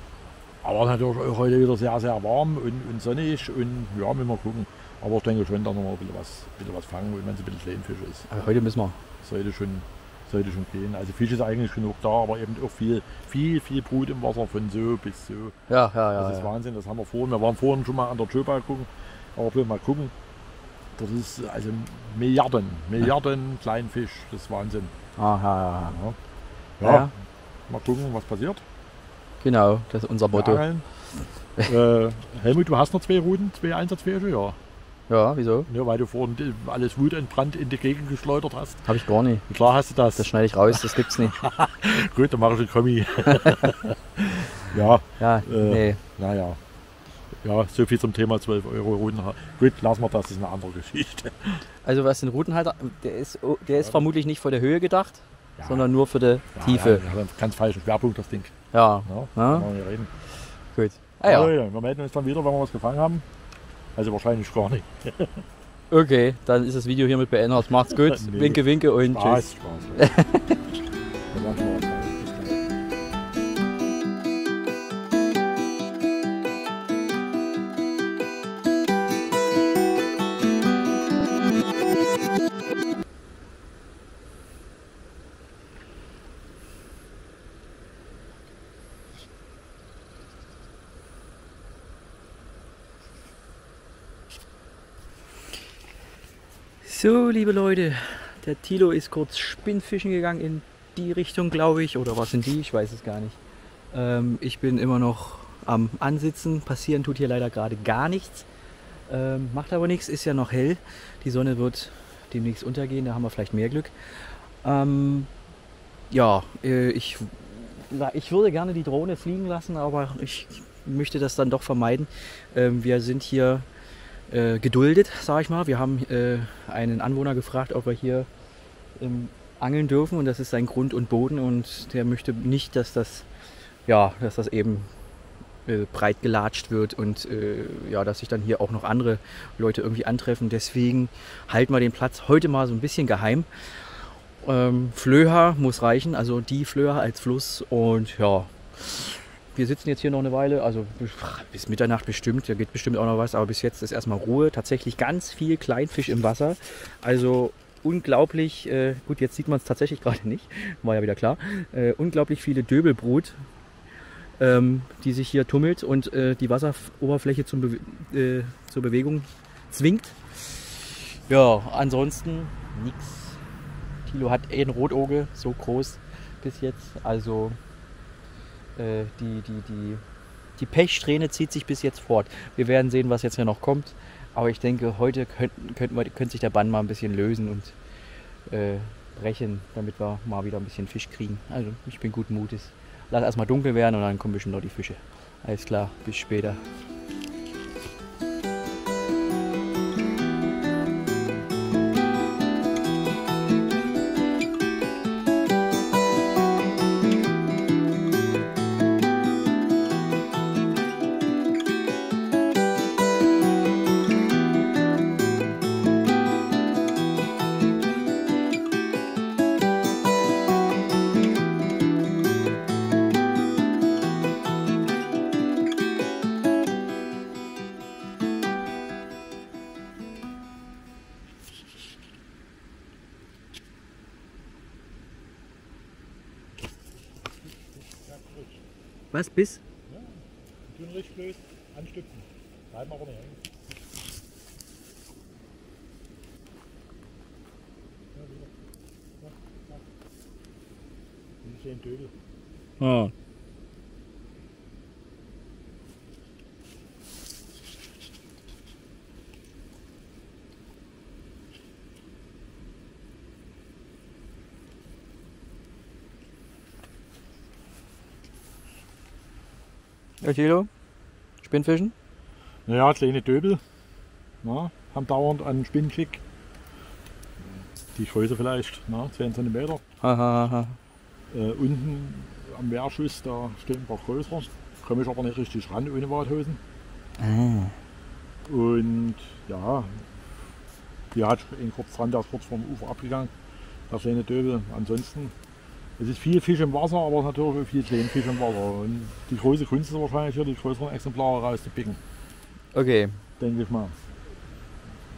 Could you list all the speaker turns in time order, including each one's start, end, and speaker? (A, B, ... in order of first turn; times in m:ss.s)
0:00.6-0:08.3 A
0:08.3-0:09.0 B
0:09.2-0:15.6 A
0:15.7-0:16.5 B
0:16.2-0:20.1 A
0:21.0-0:24.9 A
0:25.2-0:26.0 B
0:25.9-0:26.2 A
0:26.8-0:27.1 A
0:26.8-0:27.1 B
0:27.7-0:28.6 A
0:29.4-0:30.6 B
0:30.3-0:30.9 A
0:31.6-0:34.6 A
0:35.1-0:35.7 B
0:35.7-0:38.9 A
0:38.9-0:39.4 B
0:39.5-0:46.6 A
0:40.2-0:41.4 B
0:45.2-0:46.0 B
0:47.4-0:51.6 A
0:51.8-0:57.0 B
0:53.8-0:54.1 A
0:55.6-0:55.9 A
0:56.5-0:58.5 A
0:58.7-0:59.7 B
0:59.1-1:00.1 A
1:00.7-1:01.5 B
1:01.2-1:03.2 A
1:04.0-1:05.4 A
1:05.9-1:09.4 B
1:07.9-1:10.1 A
1:10.0-1:10.6 B
1:11.3-1:12.6 A
1:36.8-1:43.4 B
1:43.9-1:48.5 B
1:49.1-1:55.3 B
1:56.1-2:03.7 B
2:04.3-2:08.3 B
2:09.0-2:13.3 B
2:13.9-2:14.9 B
2:15.7-2:23.5 B
2:24.4-2:43.4 B
2:44.4-2:53.4 B
2:54.1-2:57.6 B
2:58.8-3:00.0 B
3:00.6-3:07.8 B
3:08.5-3:16.6 B
3:57.2-3:58.6 A
3:59.1-3:59.6 B
3:59.9-4:03.4 A
4:08.1-4:09.8 A
4:11.4-4:12.2 A
4:12.8-4:13.1 B
4:30.2-4:30.7 B
4:31.4-4:31.9 B
4:32.7-4:33.6 A
4:34.4-4:36.2 A
4:37.9-4:39.8 A
4:40.0-4:40.8 B
4:41.3-4:46.6 A
4:47.2-4:47.8 B
4:48.5-4:50.0 A
4:51.1-4:53.3 A
4:53.9-4:55.3 A
4:56.0-5:02.0 A
5:02.7-5:03.2 B
5:03.4-5:04.0 A